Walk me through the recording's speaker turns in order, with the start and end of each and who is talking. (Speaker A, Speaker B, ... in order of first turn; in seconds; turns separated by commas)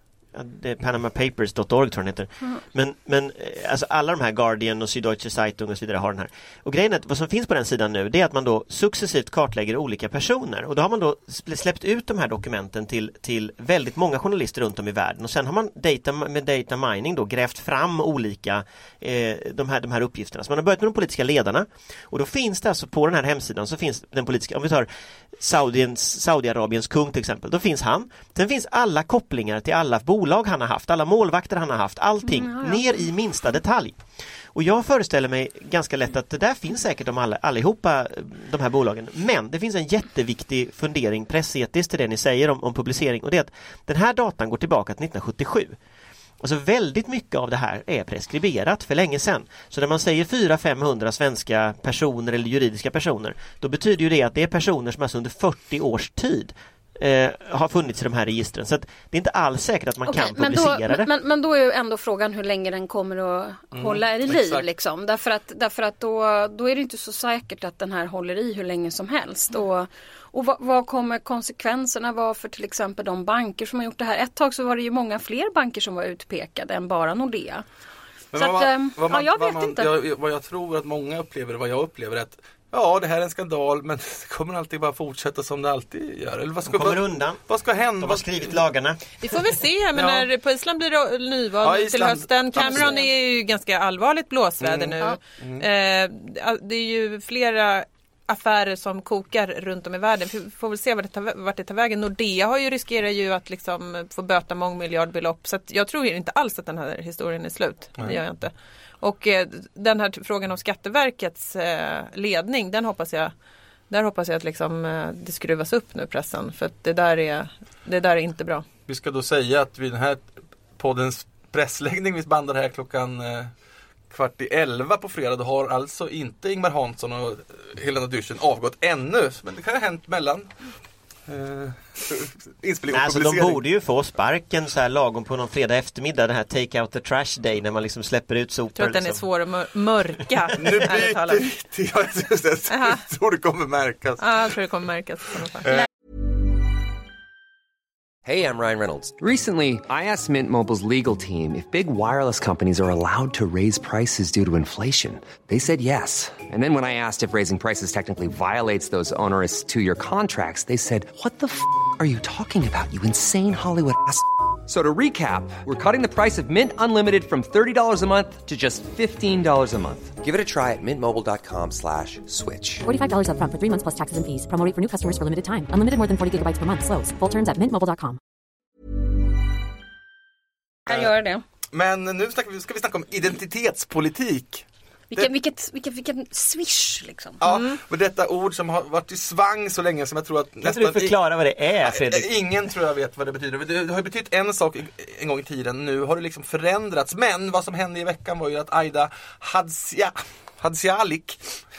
Speaker A: 0.3-34.0, Speaker B: 32.2-32.9, Speaker A: 34.5-45.8, Speaker A: 46.4-61.1, Speaker B: 60.1-77.6, Speaker C: 63.7-64.7, Speaker C: 78.3-88.6, Speaker B: 78.3-79.9, Speaker A: 86.7-87.4, Speaker A: 88.0-89.0, Speaker D: 89.2-113.3, Speaker C: 90.0-90.3, Speaker C: 91.6-93.0, Speaker C: 94.6-95.6, Speaker D: 113.9-118.7, Speaker C: 118.9-120.2, Speaker C: 120.8-123.5, Speaker C: 124.1-130.5, Speaker C: 131.3-133.6, Speaker A: 132.9-139.2, Speaker D: 138.8-141.5, Speaker C: 140.6-144.4, Speaker D: 142.7-143.0, Speaker D: 144.2-145.7, Speaker E: 148.2-172.8, Speaker F: 172.8-178.2, Speaker B: 180.9-181.4, Speaker C: 181.7-185.3, Speaker B: 185.1-187.4, Speaker C: 187.4-191.2, Speaker D: 187.4-187.8, Speaker A: 190.6-192.3, Speaker C: 191.8-201.4